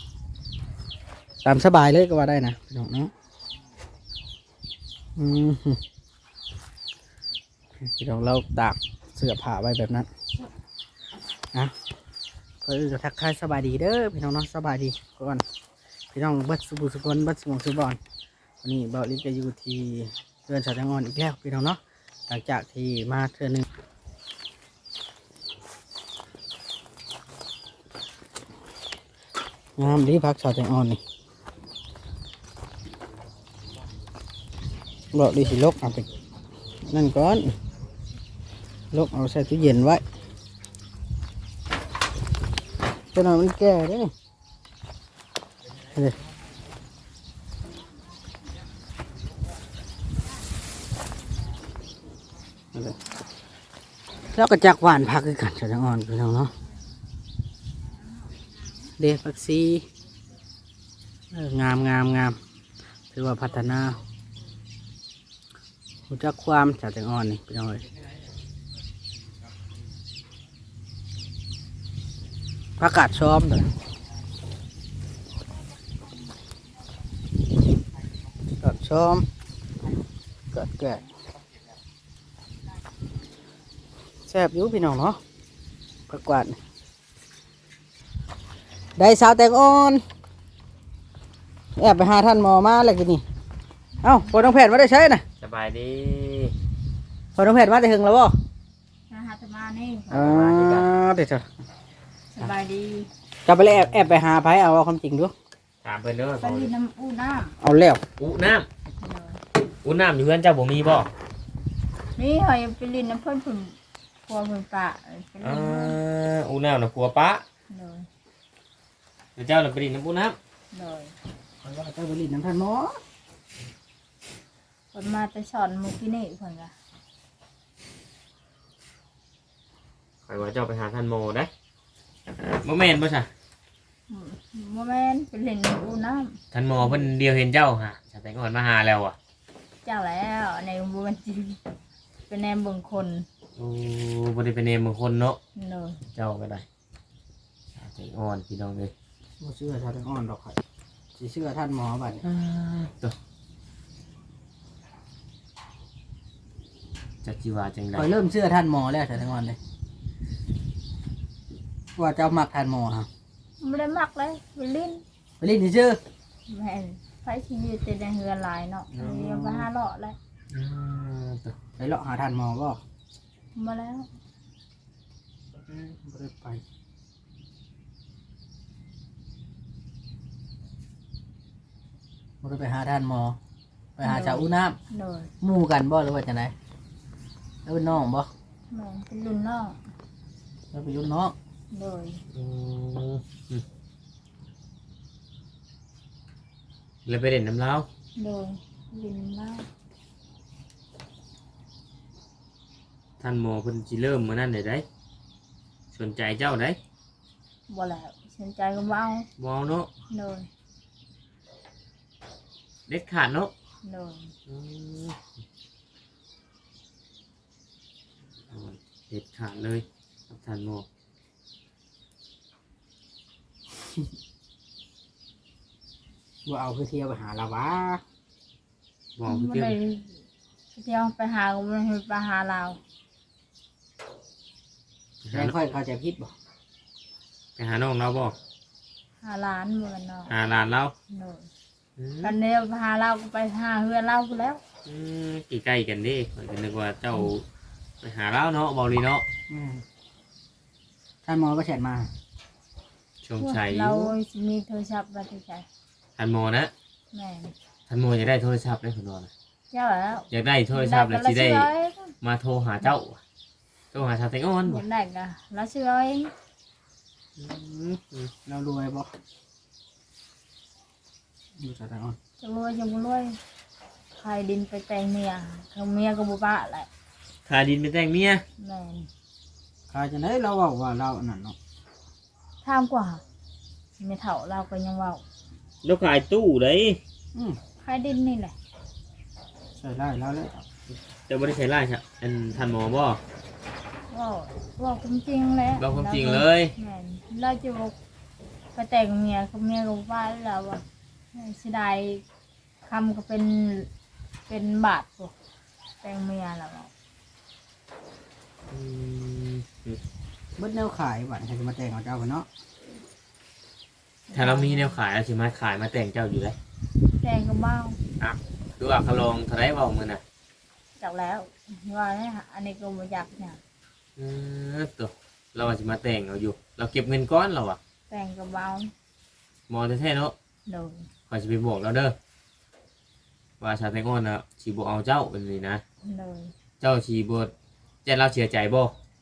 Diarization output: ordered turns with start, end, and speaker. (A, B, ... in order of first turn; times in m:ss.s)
0:01.4-0:03.1 A
0:05.2-0:05.8 A
0:07.8-0:10.1 A
0:12.6-0:15.4 A
0:16.1-0:18.0 A
0:18.6-0:23.7 A
0:29.8-0:31.0 A
0:35.1-0:36.1 A
0:36.8-0:37.6 A
0:38.9-0:40.0 A
0:43.1-0:44.1 A
0:45.9-0:46.2 A
0:54.3-0:56.5 A
0:59.0-0:59.9 A
1:01.3-1:02.4 A
1:03.1-1:04.0 A
1:06.1-1:07.9 A
1:12.8-1:13.7 A
1:18.6-1:19.3 A
1:20.5-1:21.0 A
1:24.3-1:25.2 A
1:26.1-1:26.6 A
1:29.0-1:30.0 A
1:31.8-1:33.2 A
1:34.0-1:35.2 A
1:35.4-1:36.6 B
1:37.4-1:38.4 A
1:39.1-1:40.3 C
1:40.1-1:40.9 B
1:40.1-1:41.5 A
1:42.4-1:43.1 C
1:43.5-1:45.3 A
1:43.7-1:44.1 B
1:45.8-1:46.7 B
1:46.4-1:47.6 C
1:47.6-1:48.0 A
1:48.2-1:48.7 B
1:49.0-1:49.4 C
1:49.8-1:51.1 B
1:52.2-1:56.0 C
1:55.4-1:57.4 B
1:57.7-1:58.1 C
1:59.4-2:00.4 B
2:00.7-2:01.2 C
2:01.6-2:03.0 A
2:04.9-2:06.7 C
2:10.3-2:11.5 B
2:12.4-2:13.3 B
2:14.1-2:17.1 C
2:16.5-2:19.2 B
2:19.8-2:21.6 C
2:22.3-2:23.3 C
2:23.6-2:25.4 B
2:25.6-2:26.0 C
2:26.1-2:26.7 B
2:27.8-2:28.9 B
2:29.4-2:30.6 A
2:31.2-2:32.2 A
2:32.2-2:33.2 B
2:37.2-2:38.1 B
2:38.0-2:39.6 A
2:42.0-2:43.1 A
2:43.6-2:45.0 C
2:45.4-2:46.0 A
2:46.5-2:50.2 C
2:48.9-2:49.7 A
2:50.5-2:51.6 B
2:51.8-2:52.8 A
2:53.6-2:54.1 C
2:55.5-2:56.6 A
3:02.4-3:03.4 A
3:04.0-3:04.8 A
3:04.0-3:05.3 C
3:05.4-3:06.5 A
3:07.7-3:08.3 A
3:08.7-3:09.8 C
3:10.7-3:11.4 A
3:11.7-3:12.2 C
3:12.3-3:13.6 B
3:17.1-3:17.9 B
3:18.2-3:19.7 C
3:23.2-3:24.8 B
3:25.9-3:26.8 B
3:27.7-3:29.3 C
3:29.4-3:29.9 B
3:30.1-3:30.5 C
3:32.9-3:33.5 B
3:33.8-3:34.3 C
3:34.5-3:35.2 B
3:38.5-3:40.9 B
3:46.5-3:48.0 A
3:49.2-3:49.8 B
3:49.3-3:50.2 C
3:50.7-3:52.8 C
3:55.2-3:55.5 B
3:55.3-3:56.3 A
3:57.6-3:58.4 B
3:59.2-4:00.3 C
4:00.3-4:00.9 B
4:01.1-4:01.5 C
4:02.0-4:02.4 B
4:02.2-4:04.6 C
4:04.8-4:07.4 B
4:08.0-4:09.2 B
4:09.5-4:09.8 A
4:11.2-4:12.1 A
4:13.2-4:14.1 B
4:13.4-4:15.7 C
4:16.2-4:16.7 B
4:17.1-4:17.5 C
4:17.9-4:19.3 B
4:19.7-4:22.2 C
4:20.3-4:21.7 B
4:22.2-4:23.2 B
4:23.9-4:24.8 B
4:24.7-4:26.3 C
4:27.4-4:28.3 B
4:28.5-4:29.1 A
4:31.6-4:32.2 A
4:32.4-4:33.4 C
4:34.1-4:36.9 C
4:37.5-4:38.4 B
4:38.6-4:39.1 C
4:39.9-4:41.6 A
4:42.6-4:43.2 C
4:44.0-4:45.2 C
4:45.8-4:47.0 B
4:47.3-4:47.6 A
4:47.8-4:48.6 C
4:49.8-4:50.6 A
4:51.3-4:53.2 B
4:54.1-4:58.0 C
4:55.8-4:56.7 B
4:58.8-5:02.2 C
5:02.9-5:03.9 C
5:04.5-5:05.3 C
5:06.0-5:06.9 C
5:08.7-5:10.0 B
5:10.6-5:12.5 A
5:14.3-5:15.0 C
5:14.3-5:16.6 B
5:17.2-5:18.0 C
5:18.2-5:20.2 B
5:21.0-5:23.6 C
5:24.2-5:27.8 B
5:28.1-5:28.9 C
5:29.7-5:30.3 B
5:30.7-5:31.1 C
5:31.3-5:32.2 B
5:33.6-5:35.8 B
5:36.0-5:36.5 C
5:36.8-5:37.5 B
5:38.0-5:38.9 B